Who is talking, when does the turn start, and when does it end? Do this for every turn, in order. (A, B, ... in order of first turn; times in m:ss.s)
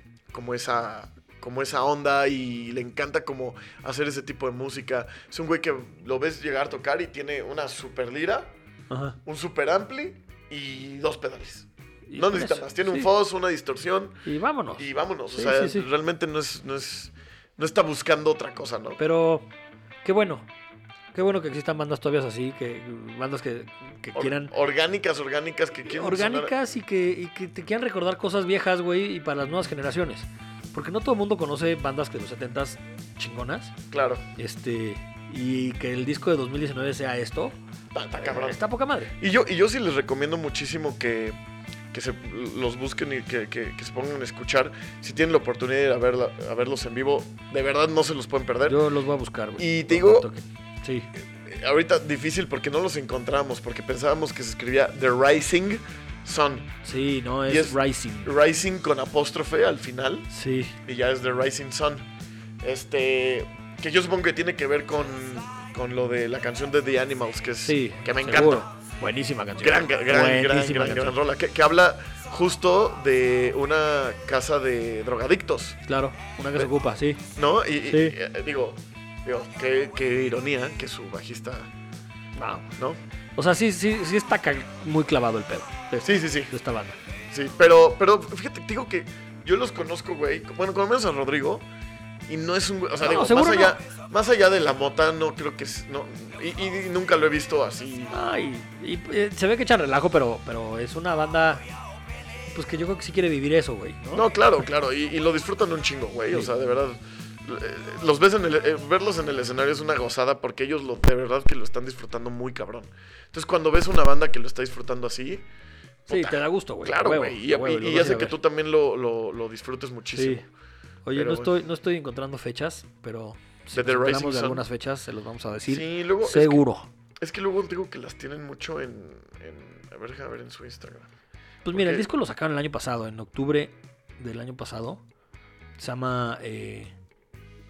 0:00.3-0:08.5 A
0:08.9-0:09.2 B
0:09.2-0:14.3 A
0:12.1-0:13.1 B
0:14.2-0:15.9 B
0:14.8-0:19.0 A
0:19.0-0:19.5 B
0:20.0-0:20.5 B
0:21.1-0:24.5 B
0:24.2-0:26.5 A
0:25.8-0:33.8 B
0:33.9-0:34.3 A
0:34.4-0:37.6 B
0:37.9-0:38.6 A
0:38.2-0:39.1 B
0:39.2-0:41.4 A
0:41.9-0:48.8 A
0:48.7-0:51.1 B
0:49.6-0:50.3 A
0:51.2-0:56.8 A
0:56.8-0:58.3 B
0:57.5-1:00.3 A
1:00.3-1:00.8 B
1:00.8-1:02.1 A
1:02.6-1:08.7 A
1:07.6-1:11.2 B
1:09.6-1:15.8 A
1:15.9-1:17.2 B
1:17.4-1:21.7 A
1:17.9-1:18.2 B
1:22.4-1:22.7 B
1:23.4-1:27.0 B
1:26.0-1:26.5 A
1:27.3-1:31.7 A
1:32.3-1:38.2 A
1:33.0-1:33.8 B
1:38.1-1:41.6 B
1:42.5-1:44.3 B
1:44.1-1:55.5 A
1:56.1-1:58.4 B
1:56.1-2:00.5 A
2:00.1-2:00.4 B
2:01.0-2:06.9 B
2:01.1-2:01.6 A
2:03.7-2:04.7 A
2:05.7-2:06.6 A
2:07.2-2:11.1 A
2:11.6-2:15.0 B
2:11.7-2:12.1 A
2:15.8-2:16.9 B